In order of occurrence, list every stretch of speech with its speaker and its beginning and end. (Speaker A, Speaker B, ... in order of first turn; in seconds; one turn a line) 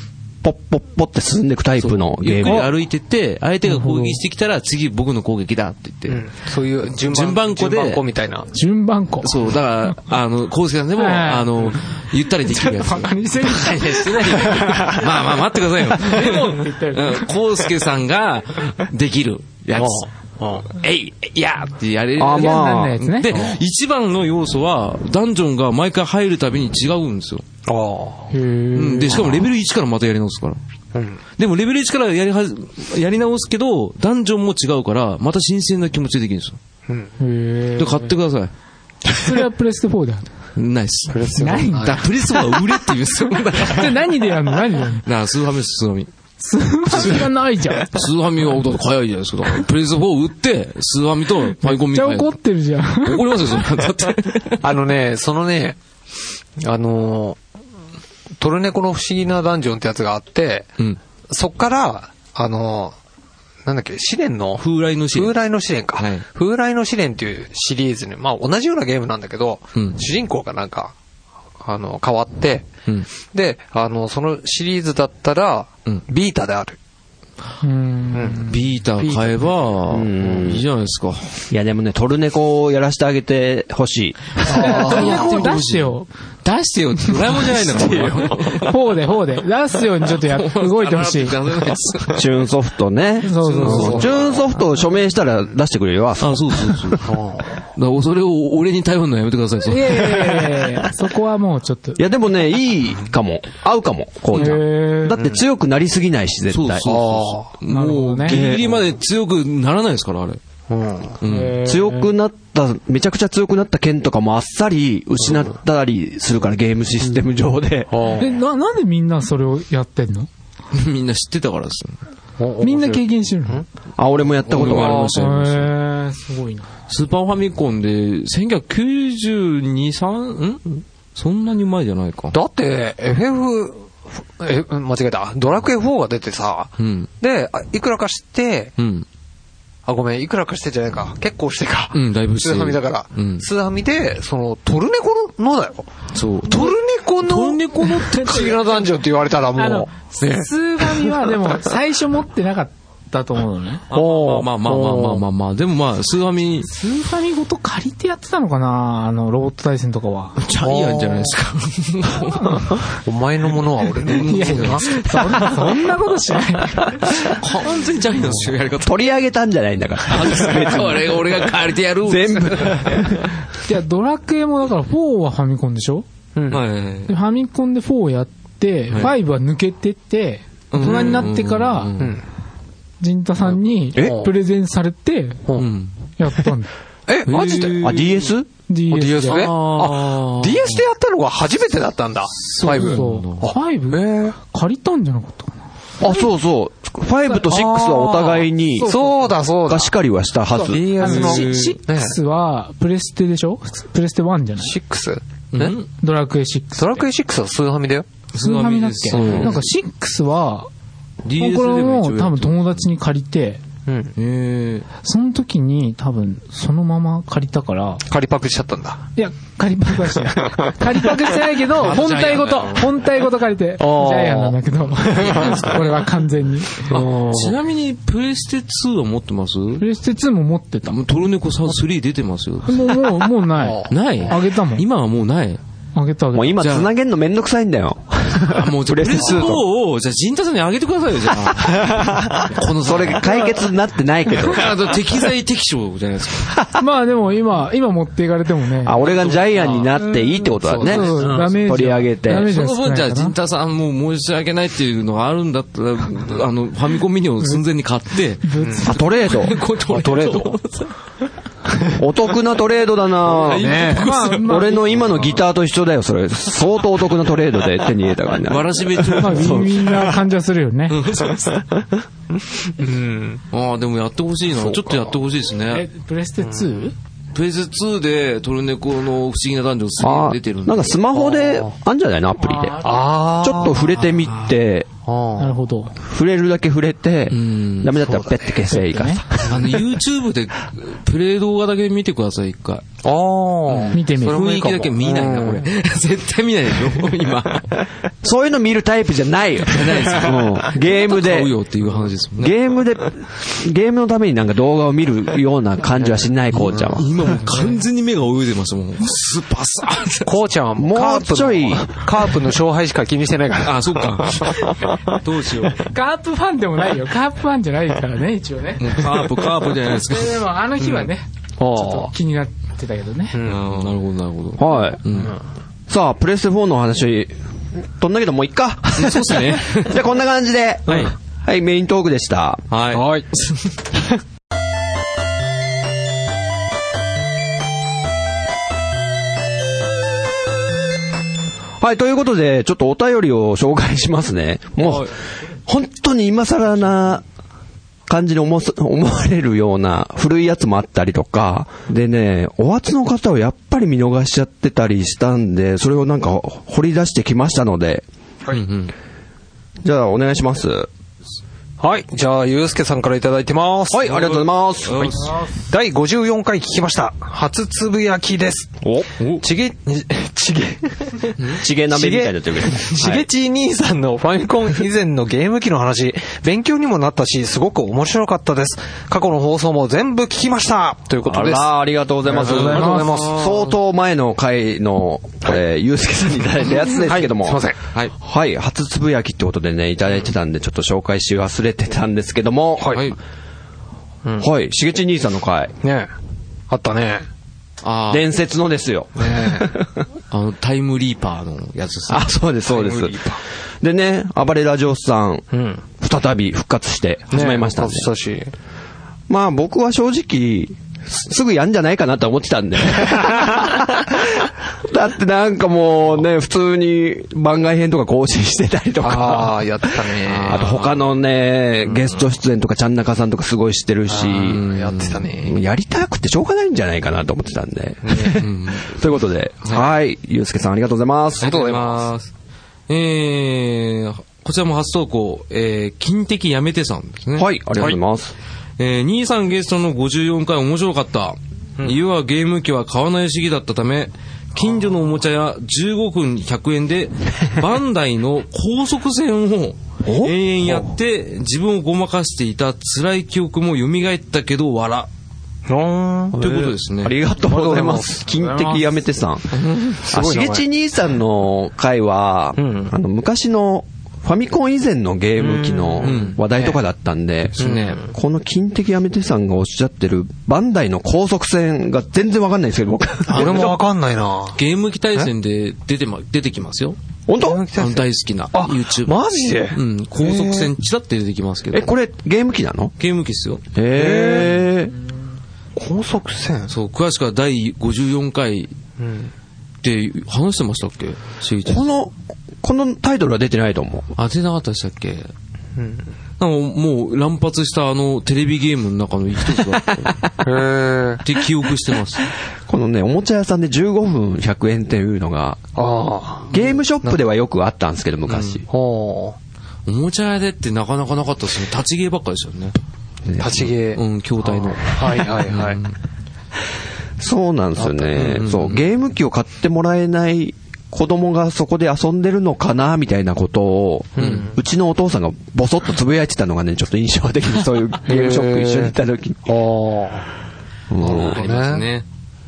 Speaker A: 0.4-2.7
Speaker B: 1.8-6.2
Speaker C: 3.6-4.2
Speaker D: 6.1-8.5
Speaker B: 7.0-8.0
Speaker C: 8.5-9.4
Speaker B: 9.2-20.1
Speaker C: 10.9-11.8
Speaker C: 12.4-15.1
Speaker D: 14.5-14.9
Speaker C: 15.9-17.3
Speaker D: 19.8-20.7
Speaker B: 20.7-27.4
Speaker A: 22.2-23.0
Speaker C: 22.3-23.4
Speaker D: 27.6-28.3
Speaker C: 28.3-29.4
Speaker B: 28.7-30.6
Speaker D: 30.9-31.2
Speaker B: 31.4-36.6
Speaker D: 36.9-37.1
Speaker C: 37.2-38.1
Speaker B: 37.8-38.5
Speaker C: 39.1-40.3
Speaker B: 40.5-44.0
Speaker D: 41.1-42.0
Speaker C: 41.3-42.0
Speaker C: 43.5-45.0
Speaker B: 45.0-46.1
Speaker C: 46.4-48.0
Speaker B: 46.9-47.3
Speaker B: 47.9-52.4
Speaker C: 51.6-53.8
Speaker B: 53.0-54.6
Speaker D: 54.6-55.8
Speaker D: 56.6-57.4
Speaker D: 58.4-60.7
Speaker D: 61.3-63.0
Speaker D: 63.6-70.9
Speaker B: 64.6-65.3
Speaker B: 66.0-66.2
Speaker D: 71.6-76.8
Speaker C: 77.6-78.6
Speaker D: 78.1-79.4
Speaker B: 78.4-81.4
Speaker A: 79.9-80.6
Speaker A: 81.5-84.6
Speaker D: 84.4-85.4
Speaker B: 84.4-88.8
Speaker C: 84.5-86.1
Speaker C: 87.0-91.7
Speaker D: 87.8-88.2
Speaker B: 90.1-92.2
Speaker A: 92.2-97.1
Speaker C: 93.2-94.1
Speaker B: 93.4-94.5
Speaker D: 93.7-94.1
Speaker B: 96.2-97.1
Speaker D: 97.0-97.6
Speaker B: 97.7-100.5
Speaker C: 99.7-102.0
Speaker A: 102.0-106.9
Speaker B: 104.3-104.6
Speaker C: 104.3-105.2
Speaker B: 106.5-110.4
Speaker D: 106.8-107.5
Speaker C: 107.7-108.4
Speaker A: 108.2-108.8
Speaker D: 110.7-111.2
Speaker B: 111.2-111.6
Speaker C: 111.2-112.1
Speaker A: 111.6-118.1
Speaker D: 115.2-115.5
Speaker D: 117.9-118.3
Speaker C: 118.2-120.3
Speaker B: 120.7-122.0
Speaker D: 122.4-123.6
Speaker C: 122.6-123.6
Speaker A: 124.0-125.2
Speaker B: 124.5-125.7
Speaker C: 124.6-126.7
Speaker D: 124.6-125.2
Speaker B: 126.9-132.3
Speaker D: 132.3-138.7
Speaker B: 136.8-137.1
Speaker B: 138.8-139.1
Speaker D: 139.8-145.9
Speaker B: 141.9-143.4
Speaker B: 146.1-148.6
Speaker D: 146.4-151.6
Speaker C: 149.6-153.8
Speaker D: 153.9-155.2
Speaker B: 153.9-156.7
Speaker C: 156.6-160.4
Speaker B: 160.4-162.7
Speaker D: 160.6-161.3
Speaker D: 162.9-165.0
Speaker B: 164.0-165.7
Speaker C: 164.2-167.3
Speaker B: 167.3-169.1
Speaker A: 168.8-171.2
Speaker B: 170.1-173.1
Speaker A: 172.0-173.3
Speaker C: 173.6-176.1
Speaker D: 176.3-176.6
Speaker B: 176.5-177.1
Speaker C: 177.1-181.9
Speaker B: 178.9-179.1
Speaker B: 180.7-182.2
Speaker D: 180.8-181.2
Speaker D: 182.0-182.2
Speaker C: 183.0-185.4
Speaker D: 183.9-184.3
Speaker B: 185.6-185.9
Speaker C: 186.2-186.7
Speaker D: 187.1-187.8
Speaker B: 187.2-188.3
Speaker A: 187.8-188.5
Speaker C: 188.7-189.5
Speaker D: 188.9-194.4
Speaker B: 189.2-190.8
Speaker C: 192.5-195.5
Speaker B: 192.7-193.5
Speaker A: 196.0-198.9
Speaker D: 197.4-199.9
Speaker C: 198.8-199.3
Speaker A: 199.7-201.2
Speaker C: 200.6-204.7
Speaker D: 200.6-202.2
Speaker B: 200.9-201.8
Speaker D: 204.6-205.8
Speaker B: 205.5-205.9
Speaker C: 205.9-207.0
Speaker D: 206.8-208.1
Speaker B: 208.3-209.6
Speaker C: 208.4-210.7
Speaker D: 209.1-209.7
Speaker A: 209.2-209.5
Speaker B: 211.2-212.9
Speaker C: 211.4-213.6
Speaker D: 213.9-214.1
Speaker B: 214.2-214.9
Speaker C: 215.0-218.0
Speaker D: 218.1-219.0
Speaker C: 219.2-226.9
Speaker D: 220.4-221.3
Speaker B: 221.8-222.9
Speaker D: 223.8-225.8
Speaker B: 225.3-225.7
Speaker D: 226.9-227.6
Speaker B: 226.9-229.8
Speaker C: 229.8-231.0
Speaker B: 230.8-233.1
Speaker C: 232.7-234.8
Speaker D: 233.5-234.3
Speaker B: 233.9-235.6
Speaker C: 235.9-236.6
Speaker A: 236.3-239.6
Speaker B: 236.6-236.9
Speaker B: 238.4-243.3
Speaker A: 242.8-244.7
Speaker B: 244.3-246.6
Speaker A: 246.5-246.8
Speaker C: 246.8-249.0
Speaker A: 248.8-252.5
Speaker B: 249.0-249.9
Speaker D: 250.6-251.6
Speaker C: 250.7-253.3
Speaker B: 252.4-260.9
Speaker C: 258.4-259.0
Speaker D: 258.6-258.9
Speaker A: 258.8-259.6
Speaker D: 259.9-260.5
Speaker A: 261.9-270.1
Speaker B: 263.2-264.7
Speaker D: 263.6-264.1
Speaker C: 263.7-265.2
Speaker B: 268.4-270.0
Speaker C: 269.1-271.0
Speaker B: 270.9-271.7
Speaker D: 272.6-273.4
Speaker B: 273.5-275.8
Speaker C: 275.7-276.9
Speaker D: 276.4-276.7
Speaker B: 277.3-281.0
Speaker A: 280.0-282.9
Speaker D: 281.1-281.7
Speaker C: 282.4-283.1
Speaker D: 282.8-283.9
Speaker A: 283.4-284.9
Speaker B: 284.2-284.5
Speaker D: 285.0-285.6
Speaker C: 285.4-285.9
Speaker A: 286.0-289.5
Speaker B: 287.3-288.1
Speaker C: 288.7-289.2
Speaker B: 289.4-292.8
Speaker D: 293.0-295.6
Speaker B: 293.7-297.7
Speaker C: 293.9-294.5
Speaker A: 298.2-301.5
Speaker B: 299.6-302.5
Speaker A: 302.4-307.1
Speaker B: 306.5-310.3
Speaker D: 310.2-315.2
Speaker A: 310.8-311.9
Speaker B: 313.6-315.9
Speaker C: 315.9-323.4
Speaker B: 318.8-321.1
Speaker D: 321.6-322.1
Speaker D: 323.3-323.7
Speaker B: 323.4-325.3
Speaker A: 324.6-325.0
Speaker A: 325.9-327.3
Speaker A: 328.0-332.6
Speaker B: 328.9-330.0
Speaker D: 330.9-331.1
Speaker B: 332.7-333.6
Speaker D: 332.9-333.3
Speaker A: 341.8-347.2
Speaker B: 344.8-345.1
Speaker A: 348.1-358.0
Speaker B: 358.5-358.9
Speaker A: 359.8-360.9
Speaker D: 361.8-364.3
Speaker A: 363.9-365.1
Speaker B: 364.1-365.4
Speaker D: 365.0-368.8
Speaker A: 368.8-369.1
Speaker D: 369.4-381.7
Speaker A: 371.6-373.2
Speaker A: 381.2-387.6
Speaker D: 382.2-383.5
Speaker B: 382.4-383.7
Speaker C: 382.6-383.2
Speaker D: 386.9-387.8
Speaker A: 388.2-393.0
Speaker D: 392.8-393.0
Speaker B: 392.9-393.2
Speaker A: 394.4-395.7
Speaker D: 395.8-396.1
Speaker D: 396.7-397.2
Speaker B: 397.8-398.2
Speaker A: 398.1-400.0
Speaker D: 399.2-399.7
Speaker B: 400.3-402.3
Speaker A: 402.1-403.2
Speaker D: 402.7-403.4
Speaker A: 403.8-405.4
Speaker D: 405.5-405.8
Speaker A: 406.0-408.1
Speaker D: 407.3-408.5
Speaker A: 409.3-419.9
Speaker D: 419.0-420.7
Speaker B: 420.2-421.0
Speaker A: 420.5-424.6
Speaker D: 424.1-425.6
Speaker B: 424.5-425.3
Speaker A: 425.4-431.5
Speaker D: 428.1-428.3
Speaker B: 428.1-428.9
Speaker B: 429.6-429.9
Speaker D: 431.4-432.1
Speaker B: 431.4-432.2
Speaker B: 432.9-437.5
Speaker A: 437.4-438.3
Speaker B: 438.8-455.1
Speaker D: 450.1-450.9
Speaker D: 455.7-456.4
Speaker B: 456.4-457.1
Speaker A: 456.4-473.8
Speaker D: 457.4-458.8
Speaker B: 459.6-459.9
Speaker D: 459.8-460.6
Speaker D: 462.6-462.9
Speaker D: 465.4-466.8
Speaker B: 466.0-466.4
Speaker B: 467.6-468.0
Speaker D: 467.6-468.1
Speaker D: 473.3-474.6
Speaker B: 473.3-473.7
Speaker B: 474.6-477.0
Speaker A: 477.3-477.6
Speaker D: 477.4-480.7
Speaker B: 477.8-479.2
Speaker B: 479.7-481.9
Speaker A: 481.7-482.9
Speaker B: 483.0-483.6
Speaker A: 483.7-484.9
Speaker D: 483.9-484.7
Speaker D: 485.8-486.7
Speaker B: 486.7-488.7
Speaker D: 489.0-489.3
Speaker B: 489.8-491.9
Speaker A: 491.6-494.1
Speaker B: 494.1-495.3
Speaker D: 495.8-496.1
Speaker B: 496.4-500.3
Speaker D: 500.4-501.2
Speaker B: 501.2-502.2
Speaker A: 502.7-505.6
Speaker D: 505.8-507.2
Speaker A: 506.5-508.6
Speaker B: 508.3-508.6
Speaker D: 508.7-509.4
Speaker B: 509.9-512.8
Speaker A: 513.3-513.6
Speaker D: 513.4-515.8
Speaker B: 513.9-515.9
Speaker A: 517.2-529.4
Speaker D: 517.8-518.1
Speaker B: 518.1-518.8
Speaker D: 524.1-524.5
Speaker B: 524.2-524.5
Speaker D: 528.0-528.9
Speaker D: 529.5-530.2
Speaker A: 530.9-531.4
Speaker D: 531.0-531.9
Speaker B: 531.0-532.0